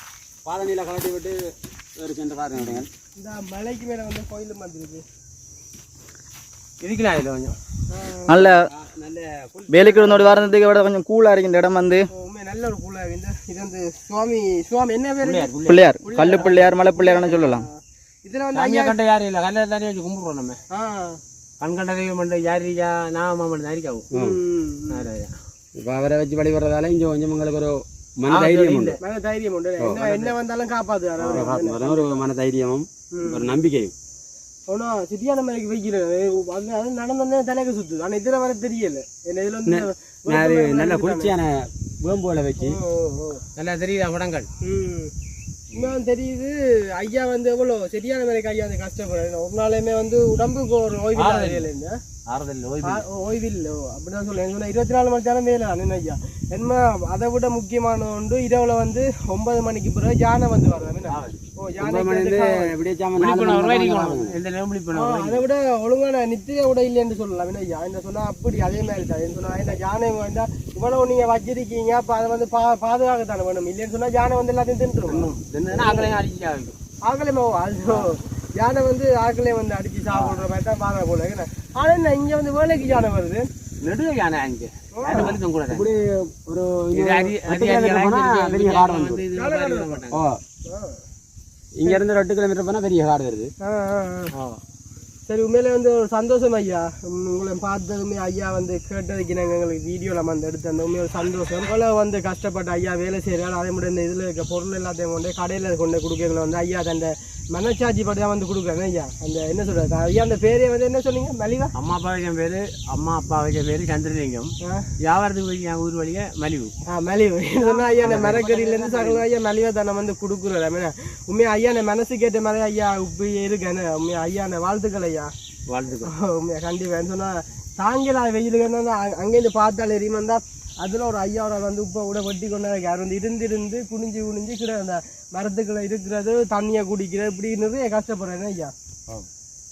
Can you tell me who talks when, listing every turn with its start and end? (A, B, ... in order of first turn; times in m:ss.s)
0:00.4-0:02.9 A
0:02.6-0:05.0 B
0:06.8-0:07.6 C
0:07.9-0:08.5 B
0:08.3-0:08.6 D
0:08.7-0:10.5 A
0:09.7-0:12.1 D
0:12.1-0:15.5 B
0:15.2-0:16.6 C
0:15.6-0:17.6 D
0:16.1-0:19.0 B
0:18.5-0:20.6 C
0:20.7-0:21.2 B
0:21.6-0:24.1 C
0:24.1-0:24.4 A
0:24.1-0:25.0 B
0:24.9-0:25.3 C
0:25.8-0:29.0 A
0:28.3-0:29.0 C
0:29.0-0:32.2 B
0:30.0-0:30.3 C
0:31.2-0:31.5 C
0:31.3-0:33.9 A
0:33.1-0:33.5 B
0:34.7-0:41.3 B
0:39.7-0:42.8 A
0:42.6-0:43.4 B
0:43.6-0:44.5 C
0:44.6-0:45.1 B
0:45.7-0:52.0 B
0:51.1-0:51.7 C
0:52.3-0:53.0 C
0:52.8-1:02.7 B
1:01.1-1:01.4 C
1:01.8-1:04.4 A
1:03.2-1:05.4 C
1:04.9-1:16.2 B
1:15.1-1:16.8 C
1:17.0-1:23.4 B
1:20.1-1:20.4 C
1:23.8-1:25.9 C
1:24.9-1:25.4 B
1:25.1-1:29.2 A
1:26.9-1:30.2 C
1:29.4-1:30.0 B
1:30.1-1:30.4 A
1:30.6-1:31.0 B
1:31.8-1:33.5 A
1:33.6-1:34.3 B
1:34.3-1:34.6 C
1:35.3-1:51.7 B
1:51.8-1:56.7 C
1:56.9-2:05.3 B
1:57.6-1:59.2 C
2:05.7-2:06.1 C
2:06.0-2:18.7 B